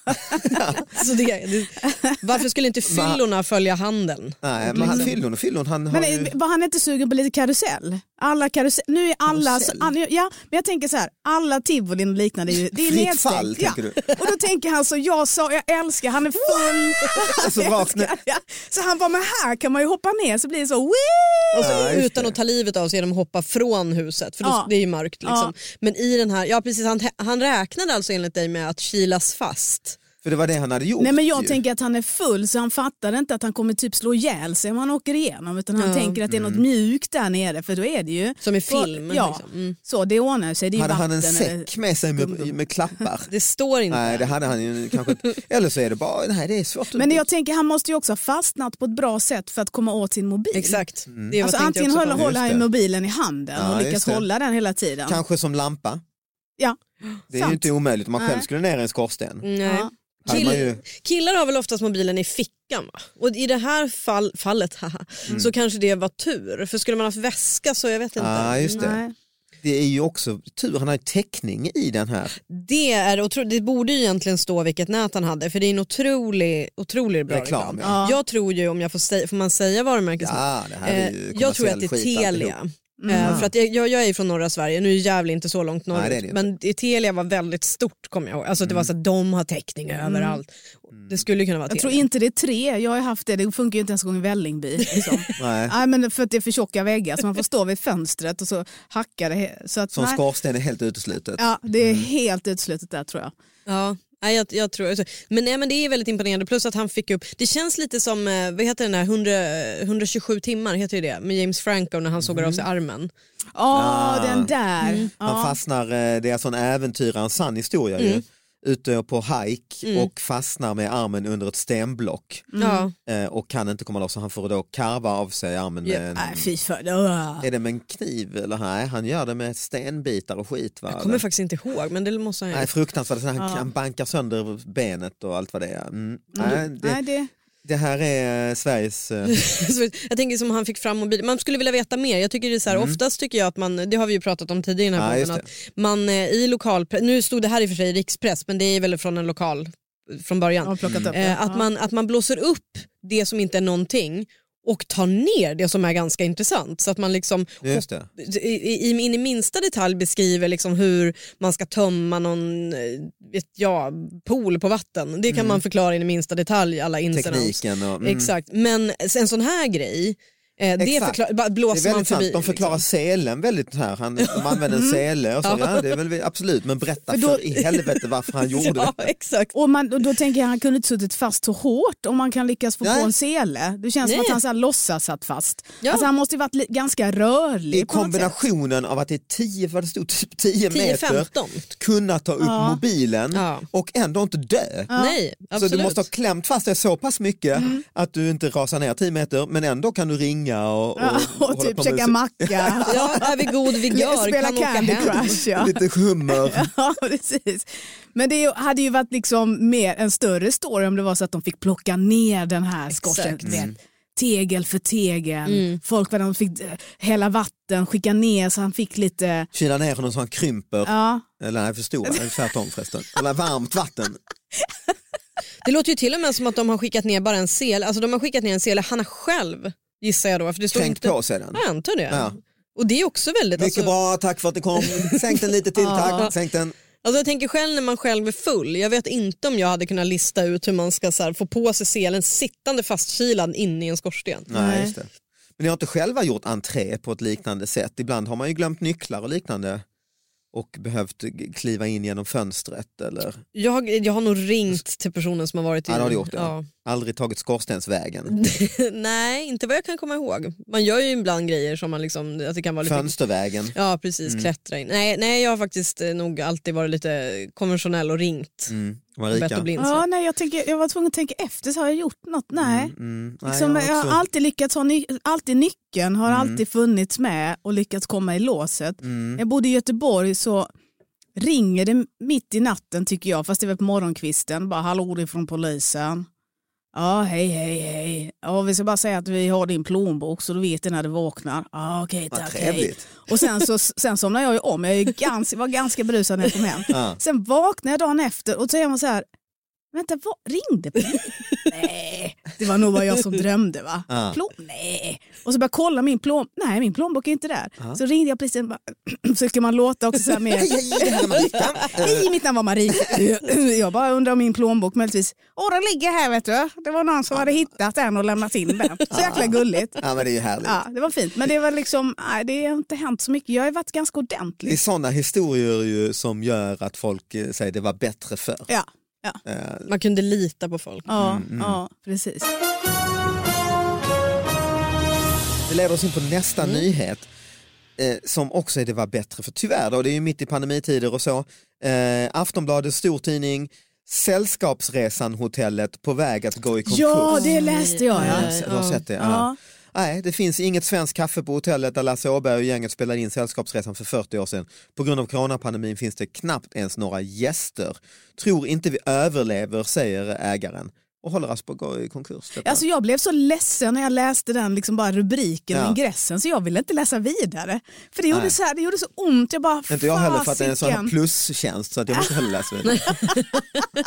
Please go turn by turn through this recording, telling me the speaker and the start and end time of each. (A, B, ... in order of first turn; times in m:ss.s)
0:00.3-0:05.1 A
0:00.4-0:00.9 B
0:02.8-0:03.2 B
0:04.4-0:06.3 B
0:04.7-0:05.1 C
0:05.9-0:21.8 C
0:09.3-0:09.9 B
0:12.7-0:14.2 B
0:17.1-0:18.2 B
0:21.5-0:30.0 A
0:21.6-0:22.3 B
0:24.4-0:24.7 C
0:25.2-0:25.5 C
0:30.2-0:31.6 B
0:31.0-0:42.5 C
0:35.8-0:36.2 A
0:36.3-0:36.6 B
0:38.4-0:39.8 A
0:40.8-0:43.3 B
0:43.3-0:45.0 A
0:43.9-0:47.2 B
0:46.9-0:50.8 C
0:50.5-0:52.3 A
0:51.1-0:51.4 B
0:51.4-0:55.2 C
0:52.1-0:52.6 B
0:53.5-0:54.2 B
0:55.1-0:56.0 B
0:57.3-0:59.4 B
0:57.3-0:58.5 C
0:59.4-1:08.9 A
0:59.6-1:00.6 C
1:00.2-1:00.8 B
1:05.3-1:05.5 B
1:08.2-1:09.0 B
1:08.7-1:09.1 C
1:09.6-1:12.3 B
1:12.4-1:32.0 A
1:17.3-1:18.0 B
1:17.8-1:18.2 C
1:20.2-1:22.5 B
1:23.0-1:23.4 C
1:23.1-1:23.5 B
1:25.9-1:26.5 B
1:28.6-1:28.9 B
1:30.0-1:30.4 C
1:31.7-1:40.2 C
1:35.0-1:35.3 A
1:35.4-1:35.7 B
1:39.9-1:42.1 B
1:41.4-1:43.3 C
1:43.7-1:53.1 A
1:52.2-1:52.6 B
1:53.5-1:55.6 C
1:53.7-1:54.5 B
1:54.8-1:55.1 A
1:55.2-2:02.5 B
1:58.0-1:58.2 A
2:02.5-2:02.8 C
2:02.6-2:02.9 A
2:03.0-2:06.5 B
2:06.1-2:07.5 C
2:07.4-2:11.2 B
2:10.9-2:12.7 A
2:12.5-2:17.0 B
2:13.4-2:13.6 C
2:16.3-2:17.3 C
2:17.6-2:19.4 B
2:19.3-2:52.8 A
2:22.7-2:23.0 B
2:25.0-2:25.4 B
2:30.6-2:31.6 C
2:30.8-2:31.1 B
2:37.6-2:38.1 B
2:45.3-2:45.6 B
2:47.1-2:48.3 B
2:50.8-2:51.2 B
2:51.7-2:59.1 B
2:54.2-2:54.5 A
2:54.7-2:55.0 C
2:55.4-2:55.9 A
2:57.1-2:57.6 C
2:58.4-2:59.5 A
2:59.5-3:08.3 C
3:02.8-3:03.1 B
3:04.0-3:04.4 A
3:07.7-3:14.9 B
3:10.7-3:11.6 A
3:12.4-3:12.8 C
3:13.3-3:13.6 A
3:14.9-3:15.2 C
3:14.9-3:16.0 A
3:15.5-3:23.2 B
3:17.6-3:17.8 C
3:21.0-3:39.5 C
3:22.8-3:25.4 A
3:25.0-3:26.7 B
3:33.0-3:33.5 A
3:33.4-3:33.7 B
3:35.4-3:35.8 A
3:39.5-3:44.2 B
3:40.8-3:41.2 C
3:42.0-3:42.5 C
3:45.6-3:53.9 A
3:50.7-3:52.4 B
3:53.6-3:56.7 B
3:54.8-3:55.4 A
3:55.8-3:56.3 C
3:56.0-3:56.3 A
3:57.0-4:04.5 A
4:04.5-4:09.8 B
4:04.5-4:04.9 C
4:10.5-4:13.4 B
4:13.5-4:16.7 A
4:15.9-4:18.3 B
4:18.3-4:23.1 A
4:22.8-4:23.7 B
4:23.7-4:28.7 A
4:28.7-4:29.7 B
4:29.3-4:30.0 A
4:29.8-4:40.7 C
4:32.6-4:34.2 B
4:36.2-4:36.6 B
4:39.0-4:39.4 B
4:41.4-4:46.3 C
4:46.9-4:59.2 C
4:52.3-4:53.0 B
4:56.9-4:57.2 B
4:59.9-5:20.1 C
5:04.1-5:04.4 B
5:10.5-5:12.3 B
5:12.9-5:13.2 B
5:19.1-5:20.8 B
5:20.6-5:24.8 C
5:24.6-5:28.7 B
5:28.7-5:29.4 C
5:29.4-5:29.9 B
5:29.9-5:31.1 A
5:31.1-5:32.5 C
5:31.2-5:31.8 B
5:35.7-5:37.3 B
5:38.0-5:47.5 B
5:46.8-5:48.5 C
5:47.3-5:49.0 A
5:48.1-6:02.8 B
5:49.2-5:49.6 C
6:02.6-6:11.1 C
6:05.7-6:06.0 B
6:09.9-6:13.2 B
6:12.8-6:13.8 A
6:13.0-6:13.5 C